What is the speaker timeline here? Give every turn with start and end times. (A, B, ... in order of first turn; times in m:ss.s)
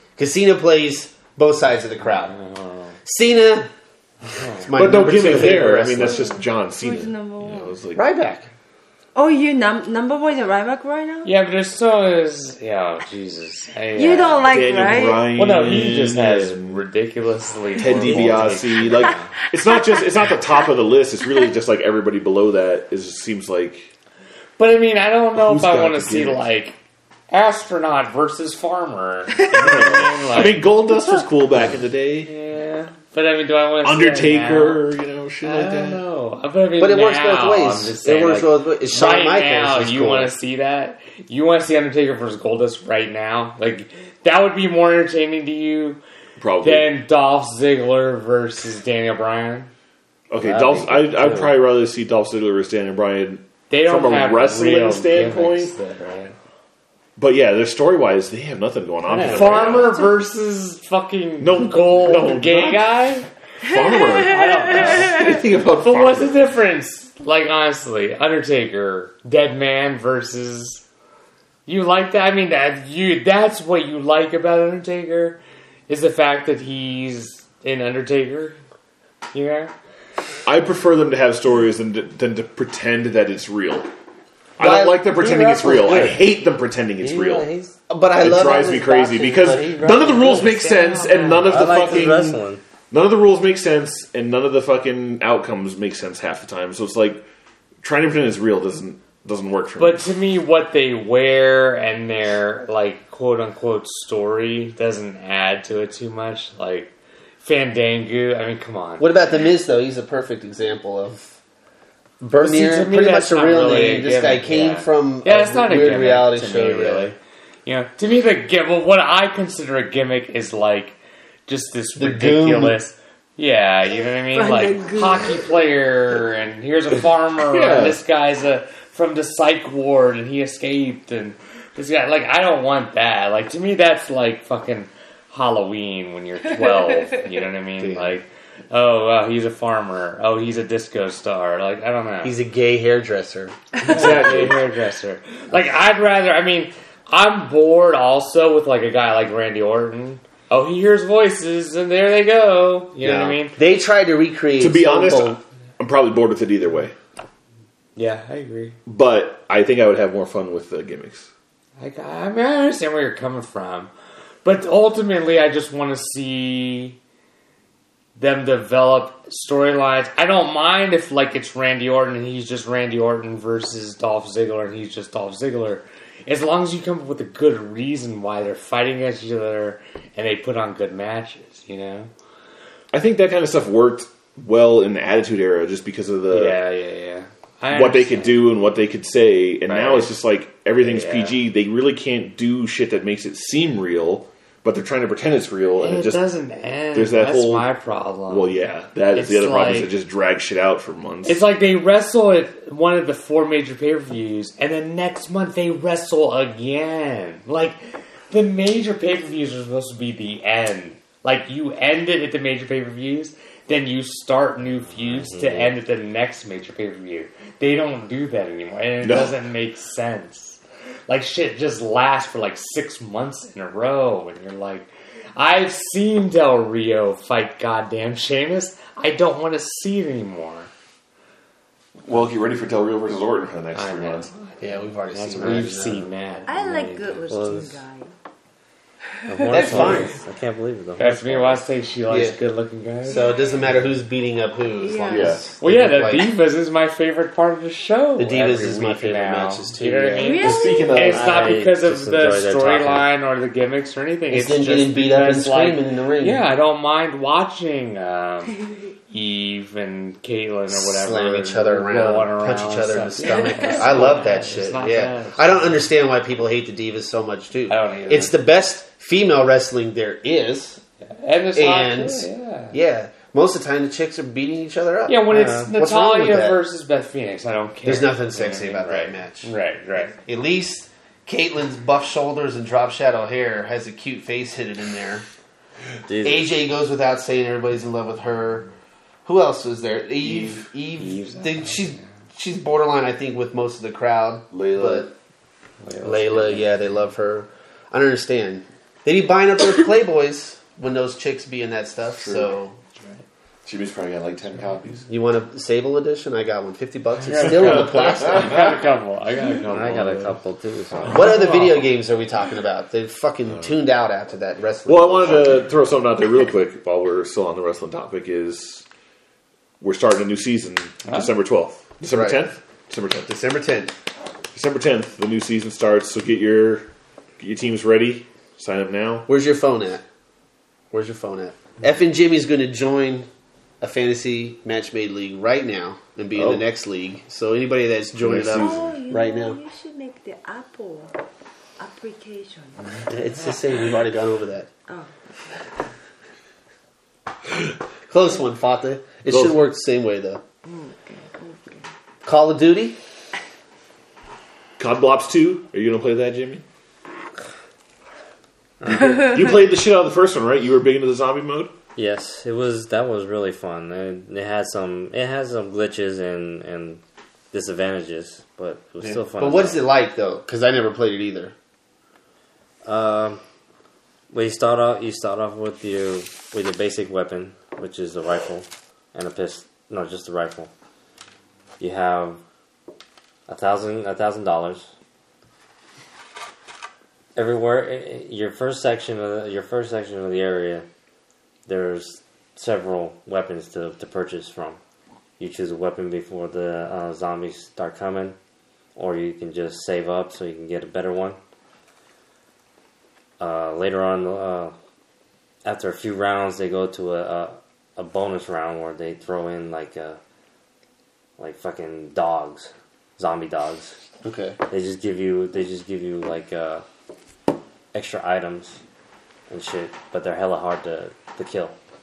0:00.2-0:02.4 A
0:02.0-0:03.0 B
0:03.0-0:03.7 A
0:04.4-0:04.7 B
0:04.5-0:06.3 A
0:04.7-0:08.1 C
0:05.9-0:07.8 D
0:08.0-0:08.5 A
0:09.2-0:11.3 D
0:11.2-0:19.0 B
0:13.9-0:15.4 D
0:14.5-0:16.8 C
0:17.8-0:23.9 C
0:18.0-0:19.3 E
0:19.7-0:20.4 D
0:24.6-0:26.8 B
0:25.4-0:26.4 C
0:27.3-0:30.7 B
0:29.4-0:32.3 C
0:32.2-0:34.8 B
0:33.8-0:36.0 C
0:35.4-0:46.0 B
0:36.8-0:40.3 A
0:46.4-0:46.9 C
0:46.6-0:49.7 B
0:50.3-0:55.7 C
0:50.4-0:51.6 E
0:53.7-0:56.4 B
0:57.2-1:00.0 C
0:59.1-0:59.8 E
0:59.1-1:03.3 B
1:01.4-1:02.9 C
1:03.6-1:06.4 C
1:03.7-1:05.4 D
1:04.2-1:05.2 E
1:05.7-1:10.8 B
1:11.7-1:18.6 B
1:19.3-1:19.7 B
1:20.5-1:23.9 C
1:24.6-1:27.5 C
1:24.6-1:26.2 A
1:25.7-1:26.1 E
1:27.0-1:30.6 E
1:27.9-1:28.9 A
1:28.2-1:32.4 C
1:30.4-1:32.1 B
1:31.4-1:32.6 E
1:32.9-1:37.3 C
1:37.8-1:40.1 C
1:39.8-1:49.1 B
1:49.0-1:51.2 A
1:52.2-1:57.1 A
1:52.4-2:22.4 B
2:02.0-2:02.8 A
2:04.3-2:05.6 D
2:07.4-2:08.0 C
2:16.7-2:17.2 D
2:17.8-2:18.1 A
2:22.2-2:23.6 A
2:23.8-2:33.6 B
2:23.8-2:24.6 C
2:33.0-2:35.4 A
2:34.6-2:37.0 C
2:38.0-2:38.8 B
2:38.9-2:41.3 C
2:41.8-2:43.9 B
2:44.4-2:47.0 B
2:48.2-3:02.1 B
3:02.9-3:06.6 C
3:06.3-3:08.5 B
3:07.7-3:16.2 C
3:09.7-3:10.1 B
3:10.8-3:11.4 B
3:15.8-3:18.6 B
3:16.9-3:17.7 C
3:18.3-3:21.4 C
3:19.1-3:19.9 B
3:21.2-3:27.8 B
3:28.3-3:50.7 B
3:35.0-3:35.8 E
3:39.0-3:39.4 C
3:52.0-3:54.3 C
3:53.7-3:57.4 B
3:54.6-3:56.1 A
3:56.5-3:58.1 D
3:57.3-3:57.8 E
3:59.3-4:00.0 D
3:59.3-4:01.7 E
3:59.5-4:00.2 A
3:59.5-4:00.1 B
4:01.0-4:03.3 B
4:02.1-4:02.4 A
4:03.1-4:03.6 D
4:03.1-4:06.4 A
4:04.8-4:05.5 D
4:05.1-4:05.4 C
4:05.6-4:18.6 B
4:08.2-4:10.5 A
4:10.1-4:11.1 D
4:10.4-4:11.5 C
4:11.1-4:13.1 E
4:14.3-4:16.5 A
4:19.1-4:25.9 B
4:20.7-4:30.8 A
4:23.2-4:24.1 D
4:27.7-4:28.4 B
4:31.1-4:32.8 B
4:31.5-4:36.6 A
4:35.1-4:40.2 B
4:35.3-4:35.7 E
4:37.8-4:39.5 A
4:40.2-4:45.2 A
4:46.1-4:46.6 E
4:46.2-4:48.7 A
4:49.2-4:55.1 A
4:50.2-4:50.7 C
4:51.0-4:52.1 B
4:54.5-4:55.1 C
4:55.8-4:56.7 B
4:56.0-5:02.8 A
5:02.1-5:02.6 C
5:03.7-5:05.1 C
5:05.1-5:08.7 A
5:07.2-5:10.4 B
5:07.3-5:08.8 C
5:09.7-5:11.3 E
5:11.0-5:11.9 B
5:11.1-5:15.6 A
5:13.5-5:13.8 C
5:14.8-5:18.8 C
5:19.8-5:23.3 C
5:22.1-5:22.4 A
5:23.3-5:23.9 A
5:24.5-5:29.3 C
5:29.3-5:30.0 A
5:30.9-5:33.3 A
5:33.8-5:39.6 A
5:36.3-5:36.6 C
5:38.2-5:39.0 C
5:38.5-5:41.2 D
5:41.8-5:43.0 D
5:43.1-5:44.7 A
5:48.1-5:50.4 A
5:49.3-5:49.6 C
5:50.6-5:51.9 D
5:52.2-5:53.0 A
5:54.8-5:56.6 C
5:58.8-5:59.1 E
5:59.0-6:01.7 C
6:02.0-6:09.8 E
6:09.4-6:11.6 A
6:12.8-6:13.4 E
6:14.3-6:20.7 E
6:21.8-6:22.4 E
6:23.5-6:24.9 E
6:27.4-6:30.9 E
6:31.7-6:34.8 E
6:35.4-6:38.4 E
6:39.0-6:41.4 E
6:43.4-6:44.7 E
6:45.6-6:50.2 E
6:51.4-6:54.0 E
6:54.2-6:54.6 A
6:54.7-6:56.8 E
6:57.9-6:58.8 E
6:59.5-7:01.8 E